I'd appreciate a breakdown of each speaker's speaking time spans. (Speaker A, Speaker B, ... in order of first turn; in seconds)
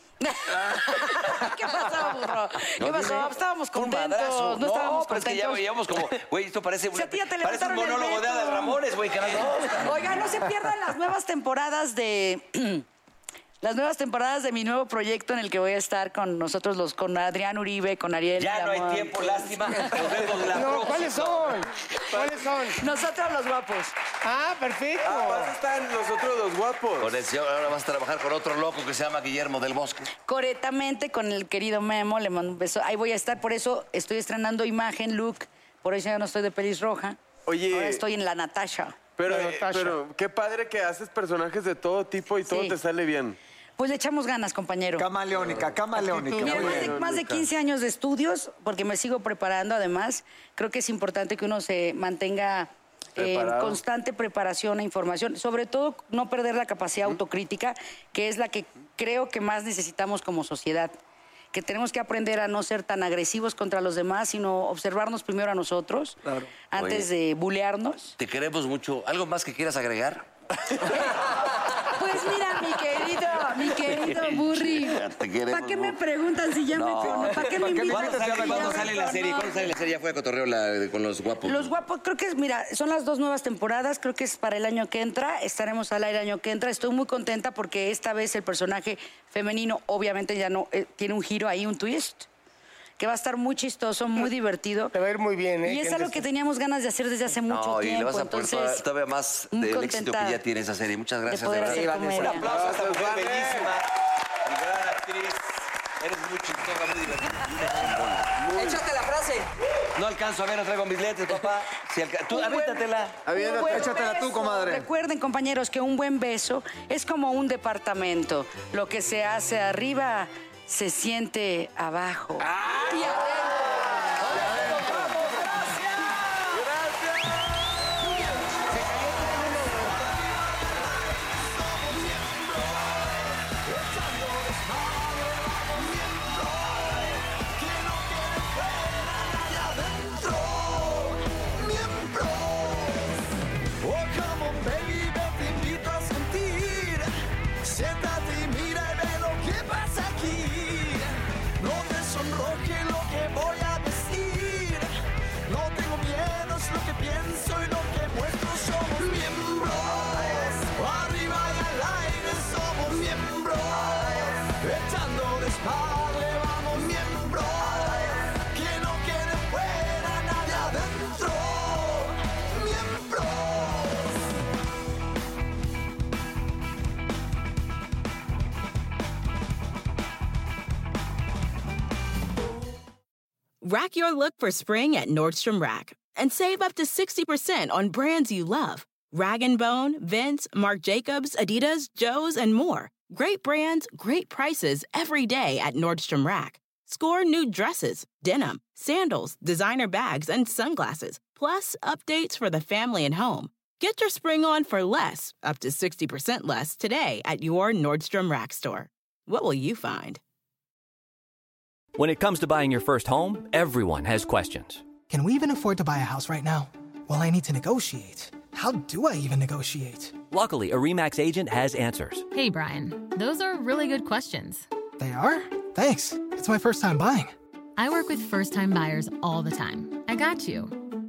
Speaker A: 0.2-5.7, 6.9-8.8, 9.4-12.8, 13.6-20.0, 22.8-23.9, 30.3-39.1, 42.5-42.8, 43.8-45.1, 46.3-60.9, 61.5-66.2, 66.7-68.1, 71.9-79.8, 81.4-92.3, 93.0-95.0, 95.6-98.8, 99.5-100.4, 101.3-102.5, 112.3-126.1, 129.0-129.7
Speaker B: 2.7-10.5, 18.4-21.6, 27.0-30.1, 66.7-67.1, 68.2-70.3, 73.7-76.0, 76.7-81.8, 97.5-103.3, 104.5-105.4, 106.0-108.8, 110.0-113.3
Speaker C: 20.6-22.8, 24.2-25.5, 39.2-40.0, 94.9-96.2
Speaker D: 25.0-27.1, 37.5-38.0, 39.2-43.4, 46.4-47.3, 53.1-53.8, 102.4-103.7
Speaker E: 45.0-47.0, 77.4-79.0, 113.2-114.9
Speaker F: 101.7-103.8, 108.4-109.5
Speaker G: 128.0-143.2, 143.8-147.1, 147.6-154.9, 155.5-174.2
Speaker H: 183.6-210.2
Speaker I: 211.9-214.9, 220.3-222.3
Speaker J: 215.1-220.2, 225.0-227.3
Speaker K: 222.3-224.7, 227.8-230.9